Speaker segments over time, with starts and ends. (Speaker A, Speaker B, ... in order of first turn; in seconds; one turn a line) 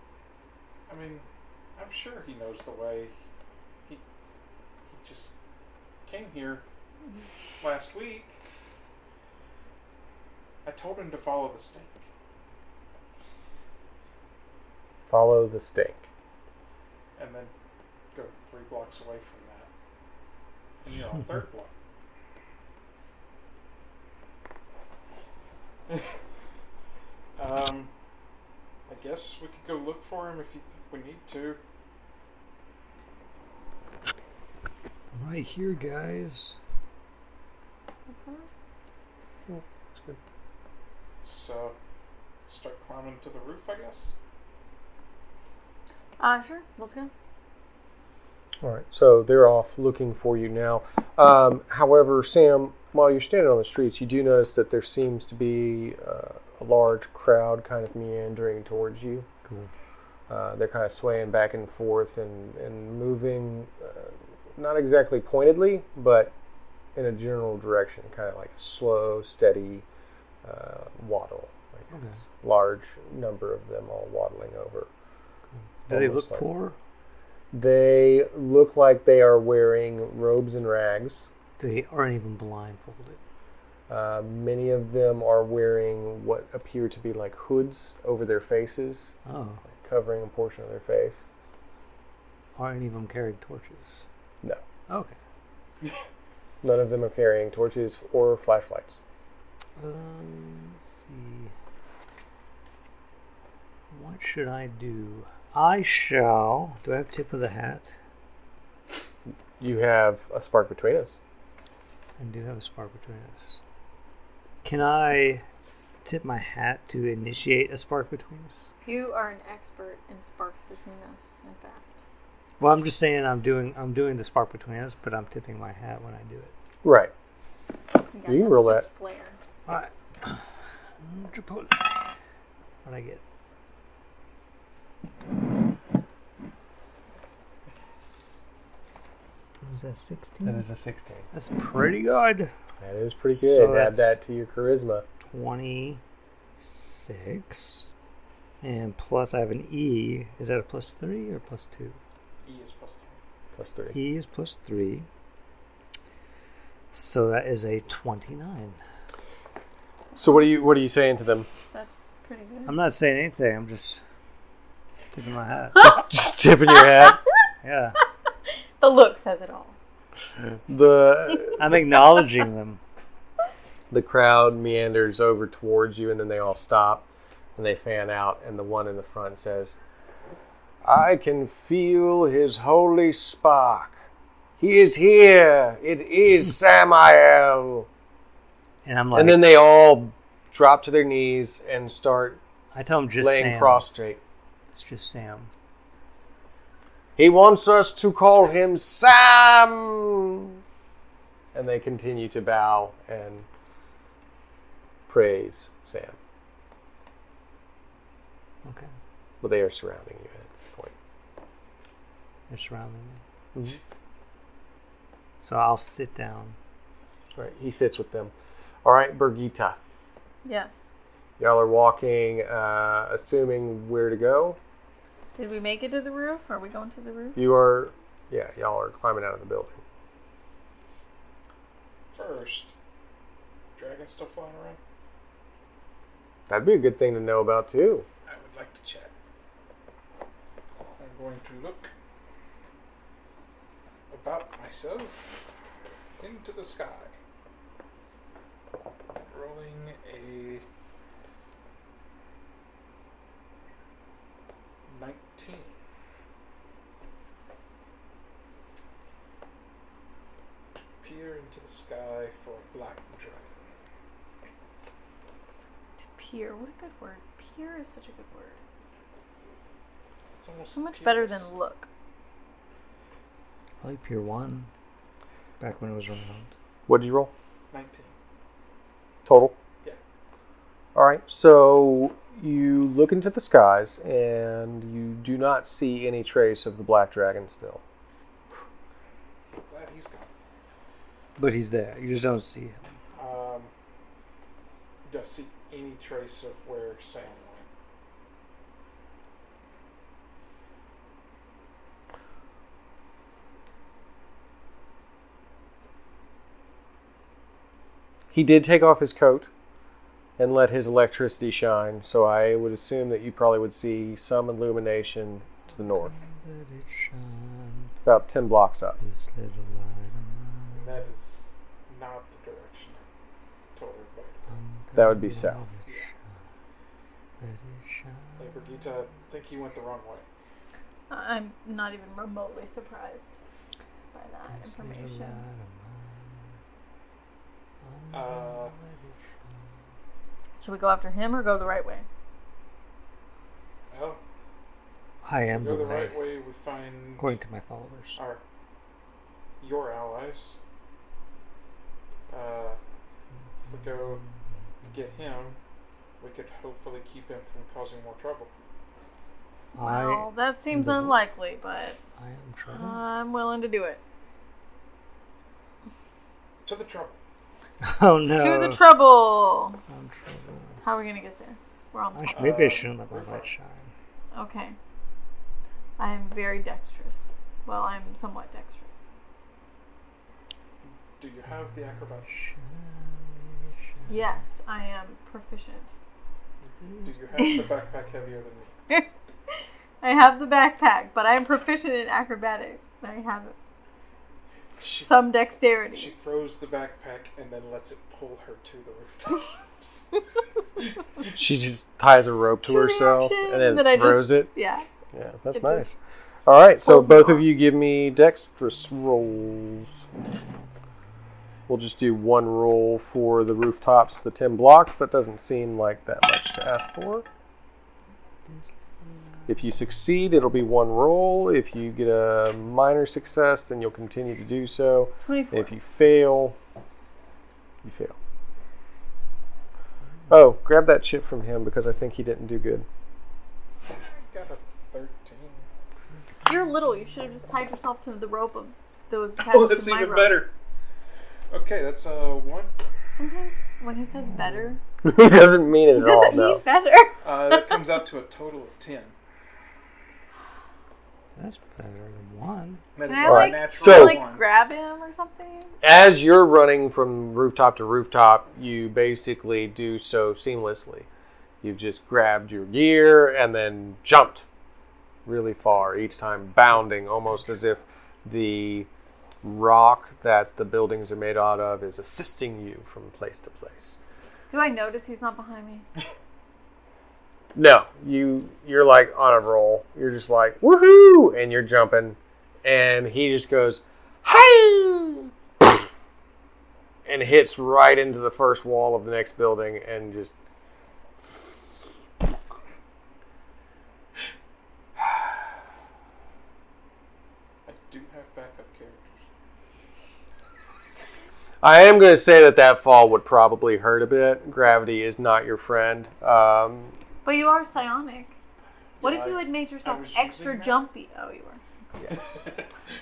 Speaker A: 0.9-1.2
Speaker A: 1.8-3.1
Speaker A: 4.9-5.3
Speaker A: 6.0-6.7
Speaker A: 7.6-8.4
Speaker A: 10.7-12.1
Speaker B: 15.1-16.1
Speaker A: 17.2-17.5
Speaker A: 18.1-19.7
Speaker A: 20.8-21.7
Speaker A: 27.4-27.9
Speaker A: 28.9-31.6
Speaker C: 35.1-36.6
Speaker D: 38.1-38.5
Speaker B: 39.5-40.2
Speaker A: 41.2-41.8
Speaker A: 42.5-44.1
Speaker D: 46.2-47.1
Speaker B: 48.6-59.3
Speaker C: 59.5-59.7
Speaker B: 60.3-66.3
Speaker B: 67.0-69.8
Speaker B: 70.4-74.9
Speaker C: 71.9-72.2
Speaker C: 75.5-76.8
Speaker B: 75.9-76.5
Speaker B: 77.5-81.3
Speaker C: 81.6-83.2
Speaker B: 83.9-89.1
Speaker C: 89.3-89.6
Speaker B: 89.7-91.3
Speaker C: 92.6-94.0
Speaker C: 94.9-95.2
Speaker B: 96.6-99.0
Speaker C: 99.8-101.5
Speaker C: 103.9-108.0
Speaker B: 109.6-111.2
Speaker C: 112.2-113.6
Speaker C: 114.6-115.4
Speaker C: 116.0-118.7
Speaker D: 118.8-122.0
Speaker C: 122.6-126.5
Speaker B: 126.8-127.1
Speaker D: 128.1-129.4
Speaker B: 128.3-128.8
Speaker C: 129.7-130.4
Speaker C: 131.0-132.0
Speaker C: 132.8-133.2
Speaker C: 139.6-140.6
Speaker B: 140.4-141.3
Speaker C: 141.3-142.5
Speaker B: 142.8-145.1
Speaker C: 143.3-144.2
Speaker C: 145.2-146.0
Speaker C: 146.6-147.9
Speaker C: 148.6-152.0
Speaker A: 152.4-153.2
Speaker B: 153.6-153.9
Speaker C: 153.9-155.1
Speaker C: 156.9-158.8
Speaker B: 160.2-161.5
Speaker D: 161.7-162.8
Speaker C: 162.7-164.0
Speaker C: 165.1-166.0
Speaker D: 165.8-166.0
Speaker B: 165.8-167.2
Speaker D: 166.7-167.2
Speaker C: 167.6-168.0
Speaker D: 168.8-169.8
Speaker B: 170.7-171.8
Speaker C: 171.6-172.8
Speaker B: 173.9-179.8
Speaker B: 180.8-184.0
Speaker B: 184.6-187.9
Speaker C: 188.8-189.4
Speaker B: 189.1-192.4
Speaker C: 192.7-193.8
Speaker B: 193.2-194.2
Speaker C: 194.7-195.5
Speaker B: 197.2-200.6
Speaker B: 201.5-203.5
Speaker B: 205.1-206.2
Speaker C: 208.6-208.9
Speaker B: 209.4-210.9
Speaker C: 212.5-213.2
Speaker C: 215.4-216.6
Speaker B: 217.4-218.3
Speaker B: 218.8-219.8
Speaker D: 220.4-220.8
Speaker B: 221.4-224.6
Speaker D: 225.4-227.4
Speaker B: 227.4-229.8
Speaker A: 232.1-232.7
Speaker A: 233.8-234.8
Speaker B: 236.5-238.1
Speaker A: 238.3-239.1
Speaker A: 241.0-241.9
Speaker A: 244.1-245.3
Speaker A: 246.2-247.2
Speaker A: 249.2-250.7
Speaker A: 254.9-255.8
Speaker A: 261.0-263.5
Speaker D: 266.2-268.6
Speaker A: 270.4-271.5
Speaker D: 270.7-271.9
Speaker C: 273.8-274.7
Speaker C: 275.6-276.5
Speaker B: 276.9-277.3
Speaker A: 277.7-278.2
Speaker B: 279.3-279.6
Speaker B: 280.9-287.8
Speaker A: 289.7-290.3
Speaker C: 291.4-292.8
Speaker A: 293.1-293.7
Speaker A: 295.1-297.7
Speaker B: 308.3-309.5
Speaker B: 310.4-316.1
Speaker C: 315.8-317.9
Speaker B: 318.1-319.0
Speaker C: 319.0-320.8
Speaker A: 320.7-323.1
Speaker A: 323.8-324.5
Speaker C: 324.5-326.4
Speaker B: 325.0-325.6
Speaker C: 327.4-328.9
Speaker A: 328.4-330.3
Speaker D: 331.1-333.4
Speaker D: 334.1-335.4
Speaker C: 334.5-336.5
Speaker C: 337.8-339.2
Speaker A: 338.1-338.7
Speaker D: 340.6-342.1
Speaker A: 343.9-344.2
Speaker C: 345.2-346.2
Speaker A: 345.5-347.3
Speaker C: 347.2-348.2
Speaker A: 348.2-348.4
Speaker A: 349.6-350.6
Speaker A: 352.3-352.8
Speaker A: 353.6-354.2
Speaker C: 353.7-354.3
Speaker A: 354.9-355.6
Speaker A: 356.2-358.5
Speaker C: 359.8-361.1
Speaker D: 359.8-362.0
Speaker C: 362.2-363.0
Speaker D: 362.7-364.0
Speaker A: 366.6-367.2
Speaker C: 367.8-368.8
Speaker D: 368.4-369.8
Speaker C: 369.9-370.8
Speaker D: 370.8-372.7
Speaker C: 372.1-373.9
Speaker A: 372.3-373.5
Speaker D: 374.3-374.8
Speaker D: 376.0-379.0
Speaker A: 380.8-382.5
Speaker C: 381.5-384.2
Speaker D: 384.1-385.9
Speaker A: 386.6-388.8
Speaker C: 386.8-387.6
Speaker D: 387.4-387.7
Speaker D: 390.0-393.6
Speaker A: 394.8-395.3
Speaker D: 394.9-396.1
Speaker A: 395.9-400.1
Speaker B: 401.3-404.5
Speaker D: 402.6-404.9
Speaker B: 405.1-410.1
Speaker D: 405.5-405.9
Speaker D: 406.8-407.4
Speaker B: 411.7-417.2
Speaker C: 418.5-419.5
Speaker B: 419.5-426.6
Speaker D: 425.2-425.8
Speaker B: 427.8-428.2
Speaker B: 430.3-432.9
Speaker A: 433.9-435.7
Speaker D: 436.5-440.5
Speaker A: 439.4-440.5
Speaker A: 441.5-442.7
Speaker D: 443.1-444.8
Speaker C: 444.2-444.7
Speaker B: 445.0-446.6
Speaker D: 445.9-447.8
Speaker A: 447.2-449.1
Speaker C: 451.4-452.9
Speaker A: 452.9-454.4
Speaker D: 453.0-455.7
Speaker B: 453.2-454.2
Speaker B: 455.8-461.1
Speaker B: 461.6-464.4
Speaker B: 465.3-468.9
Speaker B: 469.4-474.0
Speaker D: 474.5-475.9
Speaker B: 477.6-485.7
Speaker B: 487.1-490.3
Speaker A: 497.7-499.2
Speaker B: 501.6-506.9
Speaker D: 507.2-508.4
Speaker A: 509.0-510.8
Speaker D: 509.0-511.6
Speaker A: 512.1-512.7